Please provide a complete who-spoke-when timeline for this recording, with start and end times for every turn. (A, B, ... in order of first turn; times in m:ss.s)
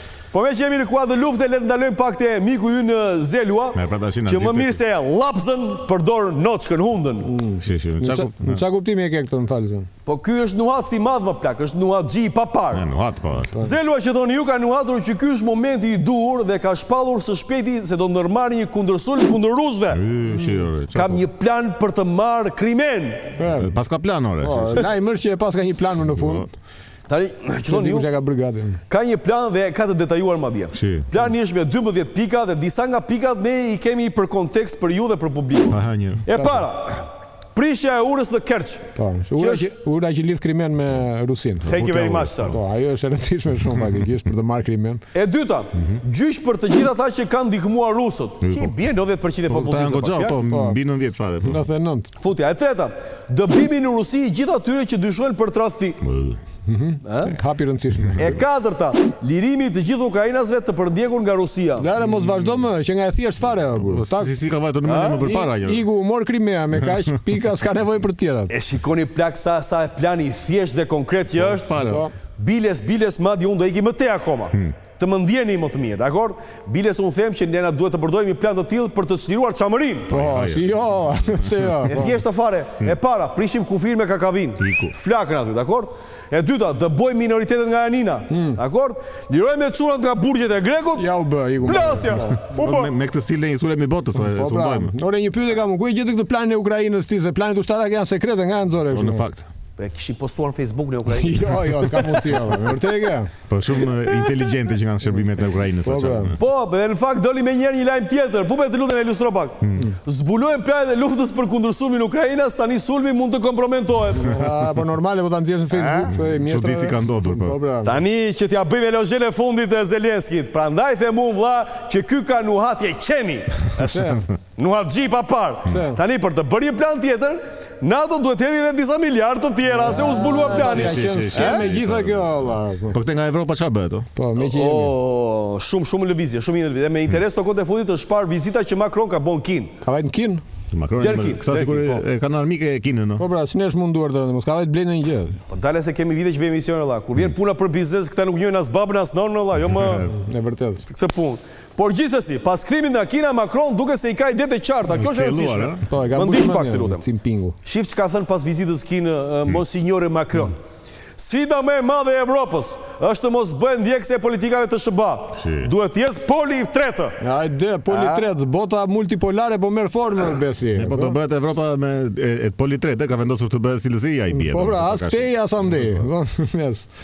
0:00.3-0:07.3 A
0:03.7-0:04.8 B
0:07.2-0:09.9 C
0:07.6-0:08.6 B
0:10.1-0:12.8 A
0:12.7-0:13.6 B
0:13.6-0:20.0 A
0:19.9-0:21.2 B
0:20.9-0:23.4 A
0:23.4-0:23.7 C
0:23.6-0:24.8 B
0:24.4-0:26.5 C
0:26.2-0:26.5 B
0:27.1-0:28.1 A
0:27.7-0:28.8 C
0:28.9-0:38.9 A
0:30.7-0:31.1 B
0:35.7-0:36.3 B
0:39.0-0:41.8 C
0:39.4-0:39.7 A
0:41.6-0:42.6 B
0:41.6-0:42.6 A
0:42.5-0:45.0 C
0:45.1-0:50.4 A
0:48.4-0:48.7 B
0:49.5-0:51.6 B
0:50.5-0:50.8 C
0:51.4-0:52.1 C
0:52.2-0:56.0 A
0:56.0-0:56.4 B
0:56.7-0:58.3 C
0:57.0-0:57.4 A
0:58.2-1:01.9 A
1:01.8-1:04.3 C
1:03.8-1:05.8 B
1:04.8-1:05.3 A
1:05.2-1:08.5 C
1:08.5-1:11.7 A
1:11.4-1:12.1 B
1:11.8-1:12.1 C
1:12.4-1:20.1 A
1:14.5-1:14.8 B
1:20.1-1:20.7 B
1:20.1-1:22.2 C
1:21.9-1:31.1 A
1:24.6-1:25.0 B
1:28.3-1:28.6 C
1:31.0-1:32.4 C
1:31.6-1:32.9 A
1:32.6-1:34.9 B
1:34.2-1:39.2 C
1:38.9-1:39.5 B
1:39.8-1:42.6 A
1:41.1-1:43.3 C
1:43.5-1:46.4 B
1:45.8-1:46.3 C
1:46.4-1:54.3 A
1:54.2-1:57.9 C
1:55.7-1:56.1 A
1:56.1-1:57.6 B
1:57.8-2:04.0 A
2:03.9-2:04.2 C
2:04.6-2:11.6 A
2:05.7-2:06.0 C
2:09.8-2:13.0 C
2:10.4-2:14.1 B
2:14.2-2:15.0 C
2:14.4-2:19.7 A
2:19.8-2:20.4 C
2:20.7-2:23.3 B
2:21.0-2:22.0 A
2:23.2-2:25.4 C
2:25.5-2:30.0 A
2:29.6-2:30.1 B
2:30.1-2:30.8 C
2:30.9-2:37.0 A
2:34.9-2:35.8 B
2:35.9-2:37.6 C
2:37.6-2:40.6 A
2:41.2-2:47.2 A
2:45.4-2:45.7 B
2:47.2-2:51.2 C
2:47.9-2:48.2 A
2:50.8-2:56.0 B
2:54.3-2:56.9 C